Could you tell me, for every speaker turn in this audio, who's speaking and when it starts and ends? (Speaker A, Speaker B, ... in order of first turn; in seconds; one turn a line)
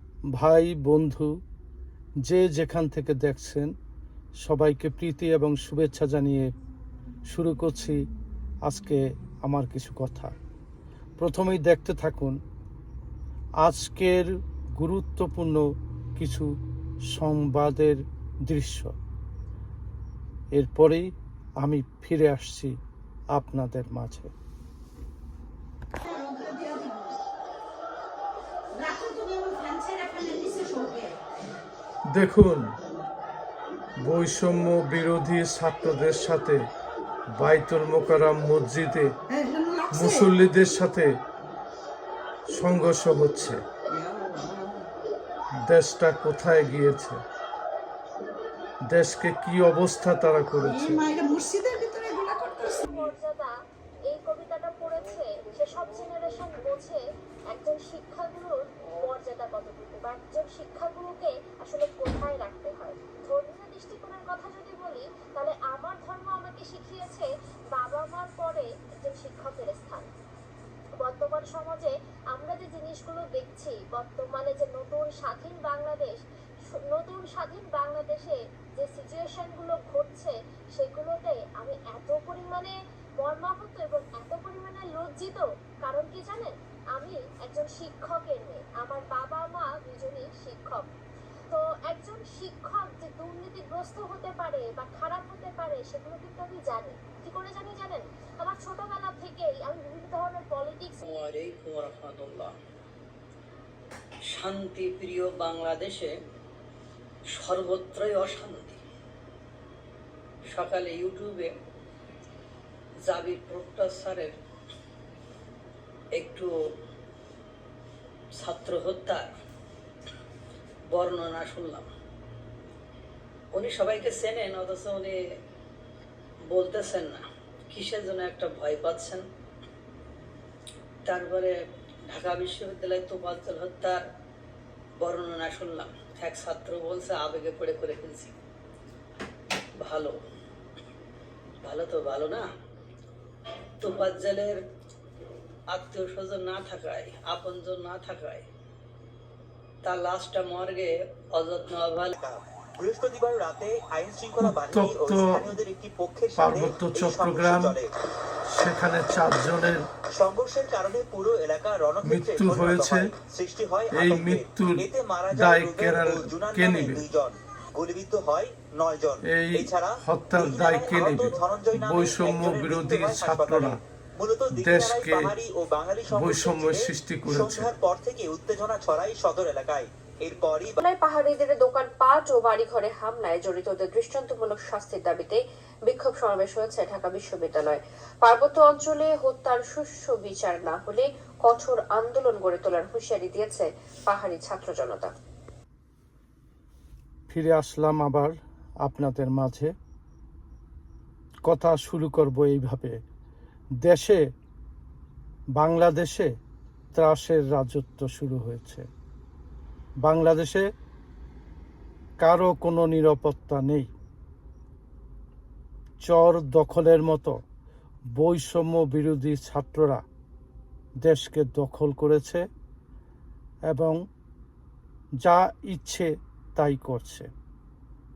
Speaker A: 0.3-1.3
Speaker A: 2.3-3.7
Speaker A: 4.4-6.5
Speaker A: 7.3-8.0
Speaker A: 8.7-10.3
Speaker A: 11.2-12.4
Speaker A: 13.6-15.6
Speaker A: 16.2-16.5
Speaker A: 17.1-18.9
Speaker A: 20.5-21.1
Speaker A: 21.6-22.8
Speaker A: 23.3-24.3
Speaker B: 26.0-27.1
Speaker B: 28.7-31.1
Speaker A: 32.1-32.7
Speaker A: 34.0-36.7
Speaker A: 37.3-39.1
Speaker B: 39.3-40.3
Speaker A: 39.9-41.2
Speaker A: 42.5-43.6
Speaker B: 43.9-44.9
Speaker A: 45.6-47.2
Speaker A: 48.9-51.0
Speaker B: 50.6-52.9
Speaker C: 52.9-53.5
Speaker C: 54.1-70.1
Speaker C: 71.0-76.2
Speaker C: 76.7-90.9
Speaker C: 91.5-101.0
Speaker D: 101.1-102.5
Speaker D: 104.3-106.1
Speaker D: 107.3-108.8
Speaker D: 110.5-111.5
Speaker D: 113.0-114.3
Speaker D: 116.1-116.5
Speaker D: 118.4-119.3
Speaker D: 120.9-121.9
Speaker D: 123.5-125.2
Speaker D: 126.5-129.2
Speaker D: 131.1-131.6
Speaker D: 132.1-134.0
Speaker D: 135.0-138.3
Speaker D: 139.8-140.2
Speaker D: 141.6-142.5
Speaker D: 143.8-144.6
Speaker D: 145.7-148.5
Speaker D: 149.8-152.1
Speaker E: 152.1-157.9
Speaker A: 154.4-155.5
Speaker A: 156.4-157.8
Speaker A: 158.5-159.9
Speaker E: 160.1-180.8
Speaker A: 162.0-163.1
Speaker A: 163.9-167.0
Speaker A: 169.2-173.8
Speaker A: 174.5-175.3
Speaker A: 176.1-177.7
Speaker F: 180.8-195.1
Speaker A: 197.3-199.7
Speaker A: 201.5-203.0
Speaker A: 203.8-204.2
Speaker A: 205.6-206.3
Speaker A: 206.9-208.8
Speaker A: 210.0-210.7
Speaker A: 212.2-213.9
Speaker A: 216.1-217.3
Speaker A: 218.2-220.0
Speaker A: 221.0-222.4
Speaker A: 223.7-224.0
Speaker A: 225.2-227.3